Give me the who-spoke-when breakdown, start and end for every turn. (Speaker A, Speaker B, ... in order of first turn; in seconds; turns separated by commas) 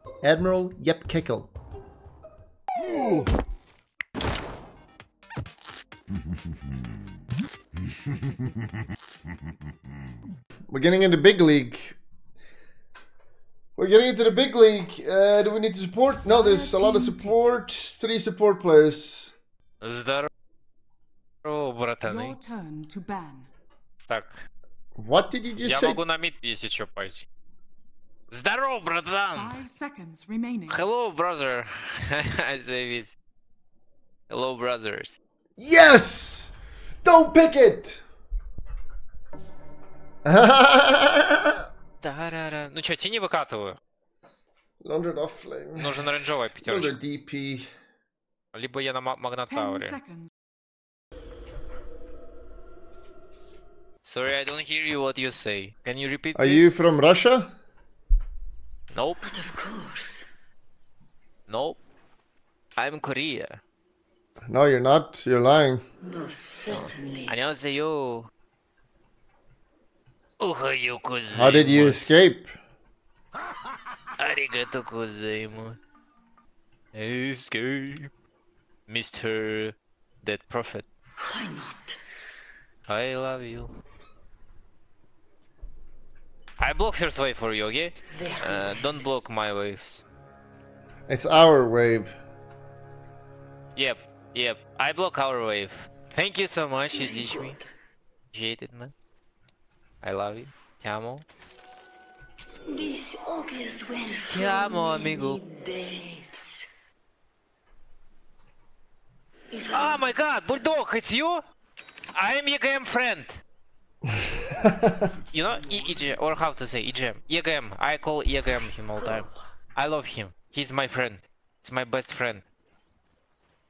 Speaker A: 0.2-1.5, Speaker A: 10.7-12.0, Speaker A: 13.8-19.3, Speaker B: 16.3-17.3, Speaker C: 19.8-20.3, Speaker C: 21.4-22.4, Speaker B: 22.0-23.5, Speaker C: 24.1-24.4, Speaker A: 25.0-26.0, Speaker C: 25.6-27.2, Speaker C: 28.3-29.6, Speaker B: 29.3-30.9, Speaker C: 30.7-33.1, Speaker C: 34.3-35.2, Speaker A: 35.6-36.5, Speaker A: 37.0-38.0, Speaker A: 40.2-41.6, Speaker C: 42.0-43.8, Speaker A: 44.8-47.7, Speaker C: 45.8-47.0, Speaker C: 48.5-50.0, Speaker B: 49.5-50.3, Speaker C: 54.0-56.7, Speaker A: 56.3-57.5, Speaker C: 58.9-59.2, Speaker D: 59.2-60.2, Speaker C: 61.5-61.8, Speaker C: 62.8-63.6, Speaker A: 64.5-65.8, Speaker D: 66.0-67.3, Speaker C: 66.7-68.3, Speaker C: 70.4-72.2, Speaker A: 71.3-72.5, Speaker C: 74.2-75.8, Speaker C: 76.9-78.1, Speaker C: 78.9-80.8, Speaker D: 81.2-82.0, Speaker C: 82.9-83.7, Speaker C: 86.6-90.0, Speaker D: 88.1-89.0, Speaker A: 91.1-92.1, Speaker C: 93.8-97.6, Speaker D: 96.9-97.6, Speaker C: 98.3-98.9, Speaker C: 100.0-101.2, Speaker D: 102.7-106.6, Speaker C: 104.2-105.4, Speaker D: 109.5-110.1, Speaker C: 109.7-111.4, Speaker C: 112.1-113.4, Speaker A: 114.4-115.1, Speaker C: 115.3-122.4, Speaker D: 119.0-119.2